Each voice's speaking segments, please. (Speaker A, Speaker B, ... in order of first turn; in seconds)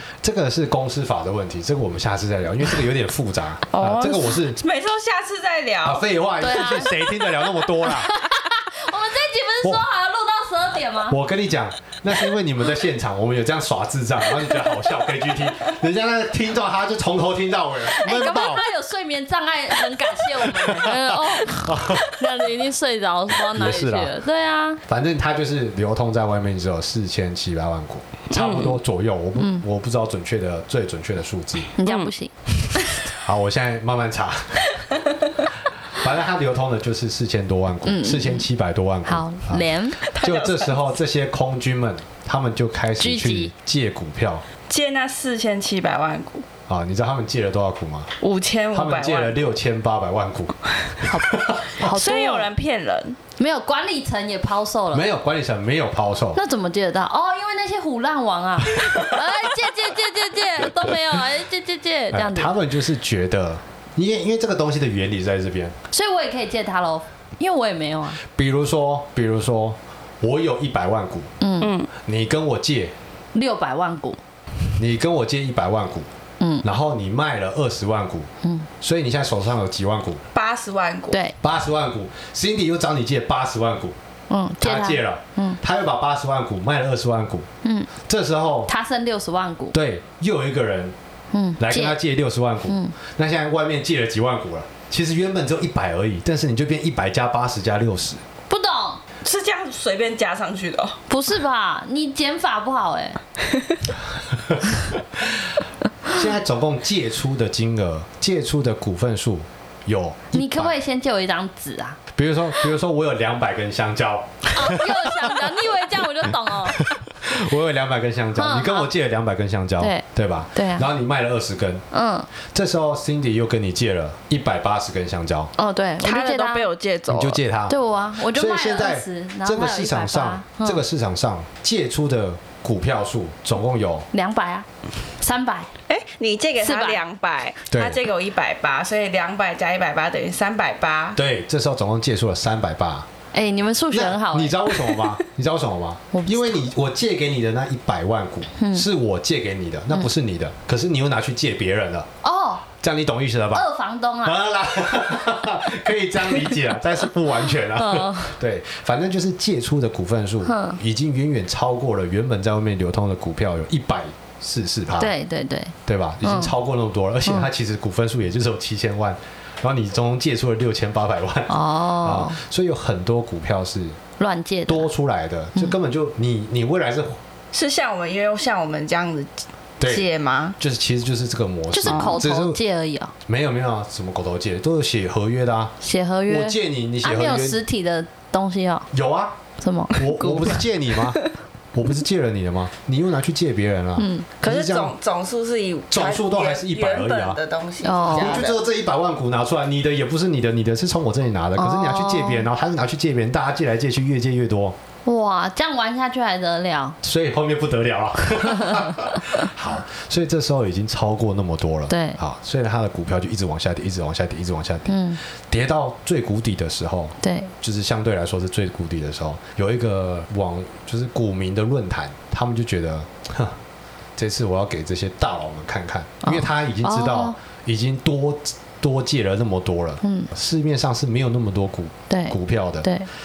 Speaker A: 0.2-4.6, 5.8-8.2, 11.1-18.6, 20.4-22.3, 23.5-24.1, 24.9-31.7, 33.1-34.8, 35.9-44.4, 46.7-48.1, 48.7-51.8, 54.9-56.4, 58.9-59.1, 62.1-65.8, 68.2-71.3, 72.0-72.9, 74.8-76.1, 76.6-78.3, 78.8-80.2, 81.4-84.0, 84.6-87.5, 88.0-88.7, 89.7-90.9, 91.6-98.2, 104.3-105.5, 106.1-110.8, 112.1-115.4, 116.7-121.8, 122.4-125.5, 127.1-134.1, 137.7-138.0, 141.1-143.1, 143.9-152.1, 152.8-153.7, 154.2-165.1, 165.9-174.0, 174.7-177.2, 179.8-182.6, 183.3-185.8, 186.3-187.6, 188.9-189.4, 189.9-191.2, 191.7-194.9, 195.9-197.4, 198.1-204.8, 207.0-223.6, 224.2-232.9
Speaker B: 3.7-6.0, 28.4-28.8, 31.9-32.1, 40.0-40.8, 44.7-46.5, 48.2-49.4, 51.8-53.2, 71.6-71.9, 80.3-81.2, 99.2-101.0, 126.0-127.4, 135.9-141.2, 177.5-180.6, 181.9-182.2, 194.4-198.6
Speaker C: 6.4-11.2, 17.9-24.8, 29.4-29.6, 31.8-32.3, 37.9-38.5, 39.1-40.0, 43.0-43.5, 51.1-52.5, 53.4-55.1, 56.4-62.5, 65.9-68.2, 71.4-71.8, 73.3-74.2, 78.4-78.7, 84.3-85.6, 87.6-87.9, 88.7-89.8, 91.3-92.0, 92.7-92.9, 98.5-99.0, 101.1-103.2, 110.3-112.0, 114.5-116.9, 118.4-118.9, 120.5-120.9, 121.9-122.3, 125.6-126.7, 127.7-130.8, 134.1-134.7, 135.2-135.7, 136.6-137.0, 143.3-145.0, 146.1-146.7, 148.6-148.9, 152.2-152.7, 153.5-154.4, 157.8-158.3, 160.4-160.8, 165.0-166.5, 171.5-172.4, 174.2-174.9, 181.7-183.1, 185.8-188.9, 189.6-190.6, 194.0-194.3, 197.8-198.4, 201.6-202.5, 205.1-207.0, 211.9-212.2, 214.9-215.2, 217.2-217.5, 226.3-227.3, 230.0-230.3, 232.1-233.1